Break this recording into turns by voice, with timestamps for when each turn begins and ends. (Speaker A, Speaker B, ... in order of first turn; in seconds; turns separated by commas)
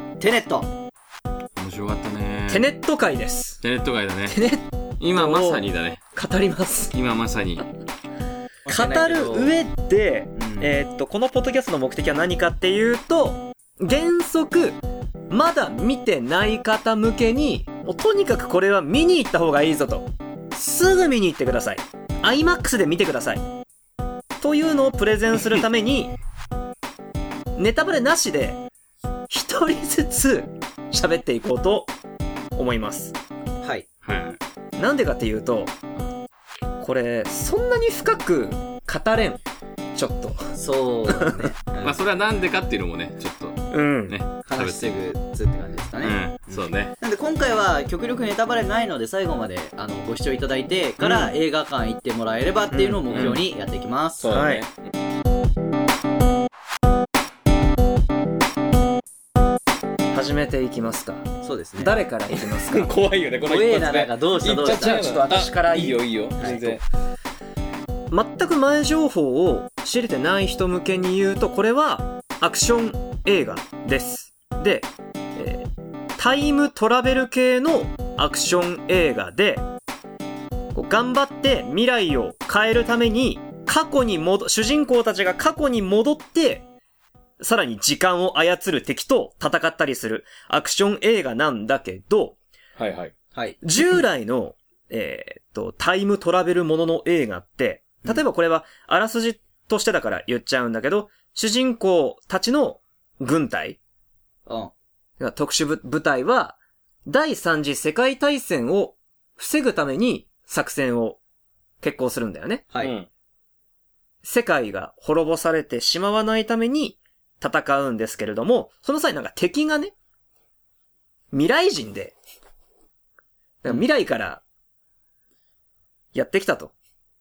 Speaker A: 0.2-0.7, Speaker B: 1.6-2.7, Speaker C: 2.5-3.6, Speaker B: 3.6-4.4, Speaker C: 4.3-6.9, Speaker B: 5.0-6.0, Speaker B: 6.9-7.7, Speaker A: 8.7-9.6, Speaker C: 8.7-14.8, Speaker A: 10.4-10.7, Speaker C: 15.3-23.4, Speaker C: 24.4-26.1, Speaker C: 27.6-28.6, Speaker C: 29.3-31.9, Speaker C: 32.6-33.1, Speaker A: 33.6-33.9, Speaker B: 34.0-34.4, Speaker C: 34.8-35.7, Speaker C: 36.8-39.4, Speaker C: 40.0-41.4, Speaker A: 40.5-42.0, Speaker B: 41.8-45.0, Speaker C: 43.7-44.1, Speaker A: 44.5-54.2, Speaker B: 46.0-46.9, Speaker C: 51.0-51.3, Speaker C: 52.7-53.4, Speaker B: 53.1-53.4, Speaker B: 54.2-54.9, Speaker C: 54.3-54.6, Speaker C: 60.1-62.9, Speaker A: 61.4-62.0, Speaker B: 62.7-66.8, Speaker A: 63.5-65.2, Speaker C: 64.6-66.8, Speaker A: 66.4-66.7, Speaker C: 68.1-79.6, Speaker C: 80.7-86.7, Speaker C: 87.4-92.4, Speaker B: 92.8-93.1, Speaker A: 93.3-93.6, Speaker C: 93.6-103.8, Speaker A: 104.5-104.7, Speaker C: 105.2-111.2, Speaker C: 111.8-112.7, Speaker B: 112.8-113.1, Speaker C: 114.2-119.9, Speaker C: 121.3-122.2, Speaker C: 123.6-124.4, Speaker C: 126.1-126.7